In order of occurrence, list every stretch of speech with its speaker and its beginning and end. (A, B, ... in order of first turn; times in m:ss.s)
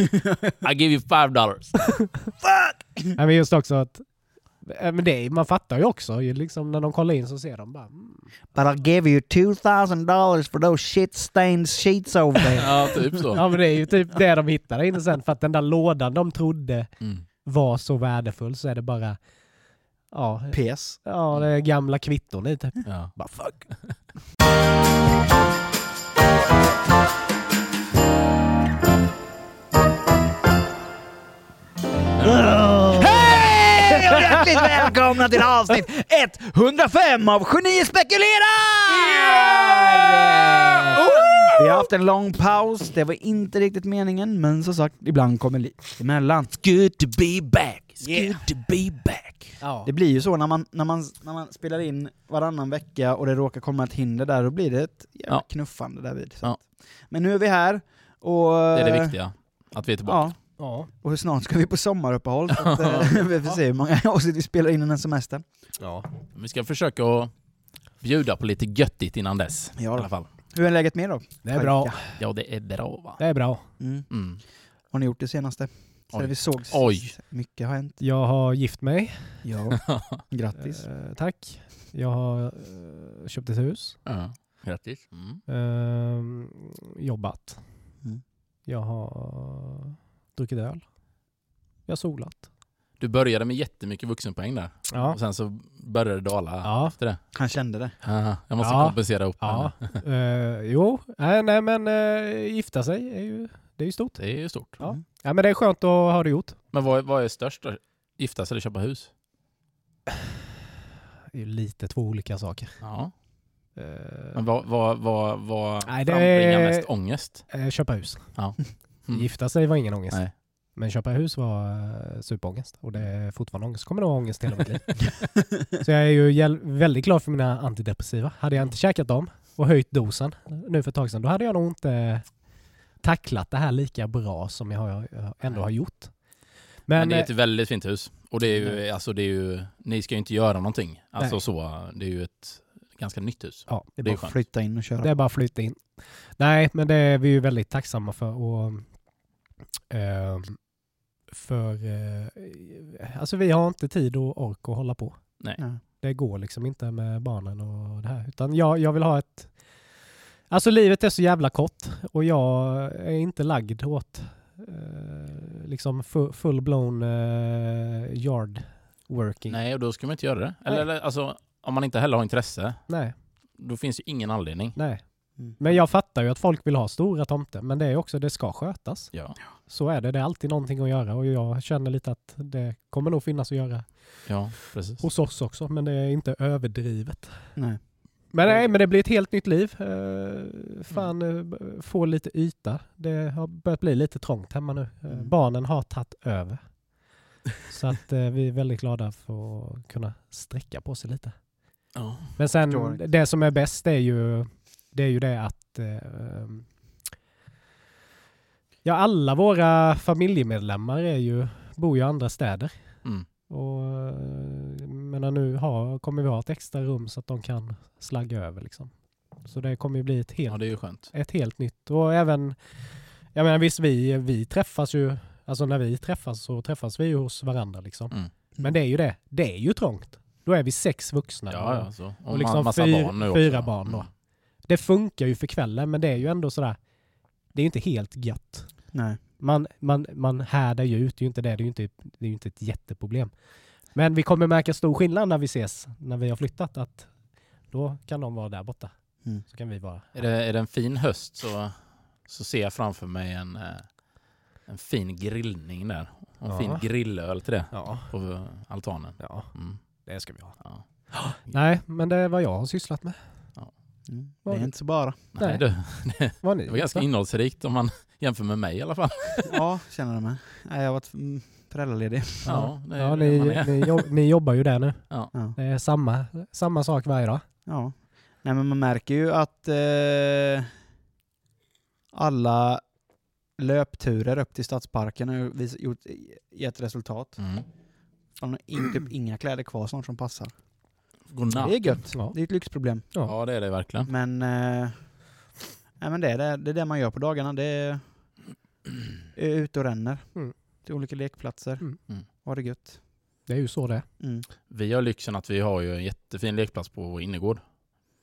0:00.6-0:02.2 A
0:02.4-0:03.0 B
0:03.2-0:08.5 C
0:08.5-0:13.3 B
0:12.6-0:13.4 A
0:13.3-0:19.3 C
0:17.0-0:17.2 A
0:20.1-0:23.9 C
0:20.5-0:21.0 B
0:22.9-0:23.9 A
0:32.2-0:32.7 A
0:33.0-0:39.4 B
0:39.0-0:41.4 A
0:41.4-0:46.6 B
0:46.6-0:49.6 A
0:48.0-0:48.4 B
0:49.6-0:49.9 C
0:49.8-0:59.5 B
0:55.3-0:56.6 A
0:58.7-1:00.4 A
1:00.0-1:05.8 B
1:00.6-1:00.9 C
1:02.6-1:03.1 A
1:05.8-1:06.1 C
1:06.3-1:10.3 A
1:09.8-1:12.0 B
1:11.4-1:12.3 C
1:12.2-1:14.4 A
1:13.2-1:13.7 C
1:13.8-1:18.0 B
1:16.1-1:17.2 A
1:18.0-1:19.5 C
1:19.4-1:21.0 B
1:19.9-1:20.2 A
1:20.6-1:24.1 C
1:24.1-1:25.4 A
1:25.5-1:28.0 C
1:28.7-1:30.9 C
1:31.9-1:32.5 C
1:33.0-1:40.0 A
1:34.9-1:35.2 C
1:36.6-1:37.0 C
1:37.3-1:38.0 B
1:38.6-1:46.6 C
1:44.2-1:44.8 A
1:46.7-1:49.1 A
1:51.3-1:52.9 C
1:52.8-1:53.1 A
1:53.8-1:54.4 C
1:54.3-1:57.7 A
1:55.8-2:17.3 C
1:58.3-2:00.3 A
2:16.9-2:24.4 A
2:18.5-2:18.8 B
2:24.0-2:25.2 B
2:25.0-2:29.0 C
2:29.9-2:30.7 C
2:31.3-2:49.6 C
2:49.5-2:54.8 A
2:52.9-2:53.2 C
2:54.8-3:16.9 C
2:59.1-2:59.4 A
3:04.3-3:05.1 A
3:07.6-3:08.7 B
3:15.1-3:15.4 B
3:17.7-3:21.4 C
3:21.9-3:22.4 A
3:22.4-3:26.8 C
3:22.7-3:23.2 B
3:28.8-3:57.0 C
3:40.5-3:41.1 A
3:51.5-3:54.1 A
3:57.5-4:10.1 C
3:58.9-3:59.2 B
4:10.2-4:21.6 A
4:16.4-4:18.1 C
4:19.2-4:23.6 C
4:24.1-4:25.2 B
4:24.4-4:27.1 C
4:25.4-4:29.5 A
4:29.5-4:32.7 B
4:32.4-4:34.1 A
4:32.5-4:37.4 C
4:37.7-4:40.7 B
4:42.1-4:42.9 B
4:43.6-4:47.6 B
4:47.4-4:47.7 A
4:48.4-4:50.6 B
4:51.3-4:52.1 A
4:51.5-4:53.5 B
4:52.1-4:53.4 C
4:53.2-4:54.1 A
4:54.0-4:55.4 B
4:56.0-4:58.4 B
4:59.4-5:03.0 B
5:03.5-5:04.1 C
5:04.2-5:04.5 B
5:04.7-5:07.7 A